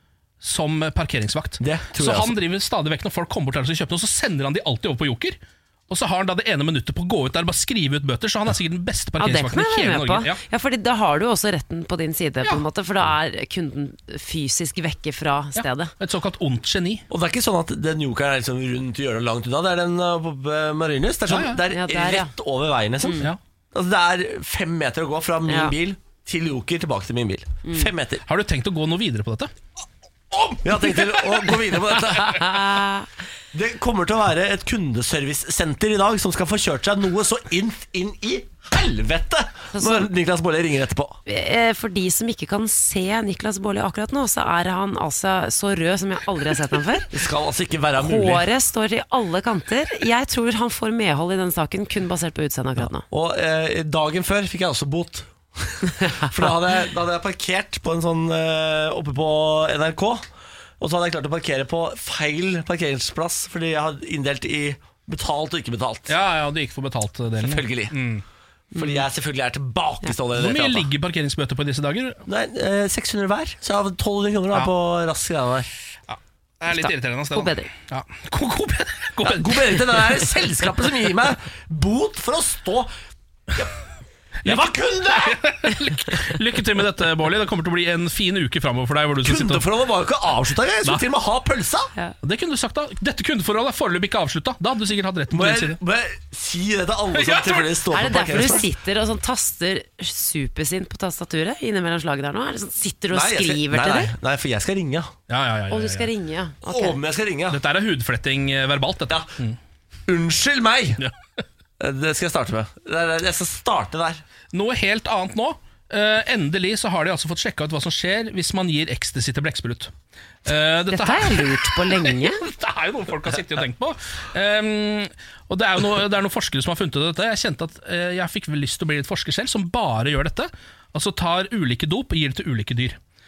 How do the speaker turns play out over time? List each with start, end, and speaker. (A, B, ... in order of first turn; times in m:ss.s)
0:00.4-0:10.4 A
0:01.6-0:02.4 B
0:09.2-0:15.9 C
0:15.6-0:17.0 A
0:17.1-0:28.2 B
0:21.3-0:21.6 A
0:21.6-0:22.3 C
0:23.0-0:23.3 C
0:25.5-0:25.8 C
0:27.6-0:27.9 C
0:28.3-0:29.5 A
0:30.6-0:32.6 B
0:32.2-0:33.1 C
0:33.5-0:41.2 B
0:39.7-0:40.1 C
0:41.3-0:47.1 C
0:47.1-0:48.5 B
0:48.0-0:53.0 C
0:53.1-1:00.3 B
0:56.0-0:56.5 C
1:00.8-1:06.1 B
1:06.1-1:08.2 A
1:07.4-1:08.0 B
1:08.7-1:09.0 C
1:08.8-1:10.9 B
1:10.3-1:12.2 A
1:12.3-1:15.7 B
1:16.1-1:20.0 A
1:16.7-1:17.7 C
1:19.2-1:22.9 B
1:24.4-1:25.4 B
1:24.4-1:29.7 A
1:29.2-1:31.9 B
1:32.2-1:35.8 A
1:35.3-1:38.7 B
1:37.2-1:38.6 A
1:37.9-1:44.1 C
1:43.1-1:45.1 B
1:45.3-1:46.1 A
1:45.7-1:47.0 C
1:46.7-1:47.6 B
1:47.5-1:49.6 A
1:50.1-1:51.0 B
1:51.8-1:54.2 B
1:54.5-1:59.9 A
2:00.4-2:13.0 A
2:00.9-2:02.4 C